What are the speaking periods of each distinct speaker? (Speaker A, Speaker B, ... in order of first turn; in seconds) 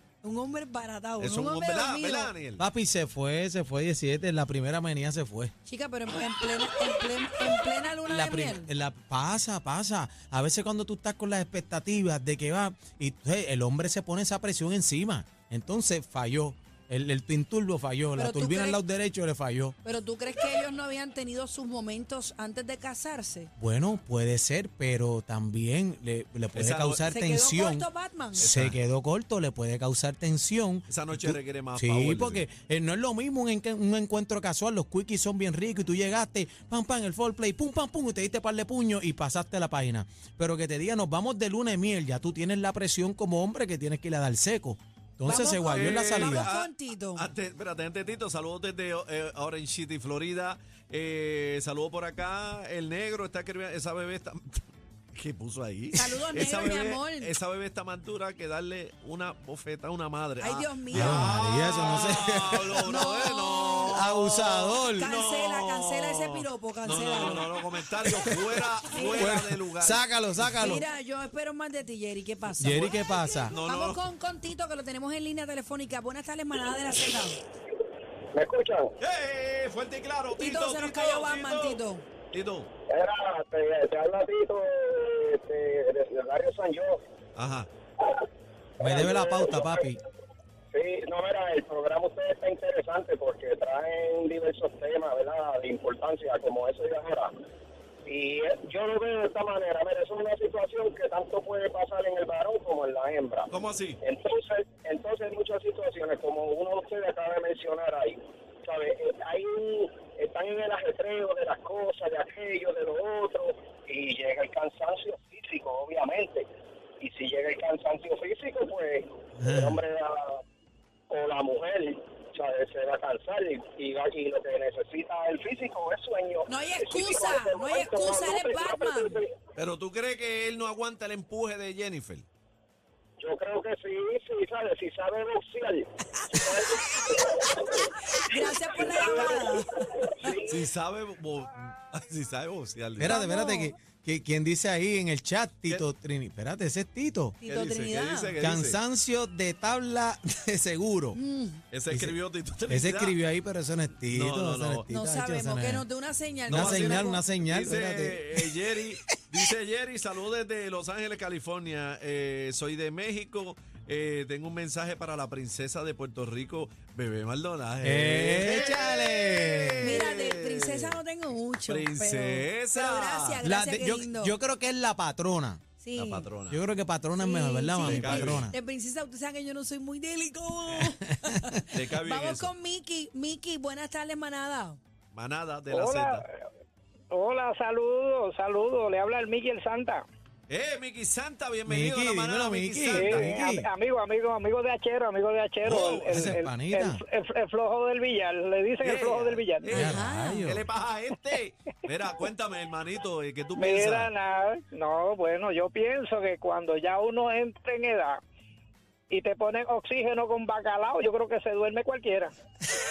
Speaker A: 0.2-2.3, 5.7-8.7, 18.2-18.8, 19.8-23.5, 27.1-28.5, 45.2-47.3, 56.0-57.3, 60.4-62.2, 62.8-64.0, 64.8-67.5, 68.9-69.3, 70.6-77.4, 80.4-82.0, 126.5-129.1, 136.3-136.9, 138.1-140.4, 143.0-143.8, 147.4-148.3, 151.1-151.6, 154.9-157.2, 169.8-174.3, 175.8-176.3, 177.2-184.8, 199.7-200.5
Speaker B: 1.2-2.6, 26.6-27.0, 28.4-28.8, 30.9-32.5, 45.3-70.5, 73.5-74.0, 79.0-81.8, 82.3-82.7, 87.4-87.7, 103.5-104.0, 129.6-132.3, 140.5-143.2, 147.5-148.8, 151.7-153.2, 154.1-154.9, 156.5-170.9, 171.6-173.4, 176.0-176.6, 177.8-178.5, 181.7-182.5, 185.1-186.2, 190.5-193.4, 195.7-196.4, 198.8-204.1
Speaker C: 2.6-5.5, 8.1-19.8, 23.6-46.5, 60.9-62.9, 63.9-65.1, 69.1-70.8, 72.6-73.6, 88.8-90.0, 119.4-119.8, 143.0-147.4, 148.4-151.2, 151.9-155.9, 156.5-158.6, 167.8-169.9, 173.4-175.6, 176.5-178.6, 181.3-181.6, 191.7-193.7, 195.7-197.0, 199.7-200.7
Speaker D: 78.3-78.9, 82.9-87.0, 88.8-89.8, 90.7-97.3, 98.0-103.5, 104.0-116.5, 117.0-120.4, 121.1-129.3, 133.2-140.7
Speaker E: 185.7-186.4, 187.1-190.0, 192.9-199.8, 203.6-208.2, 209.1-212.3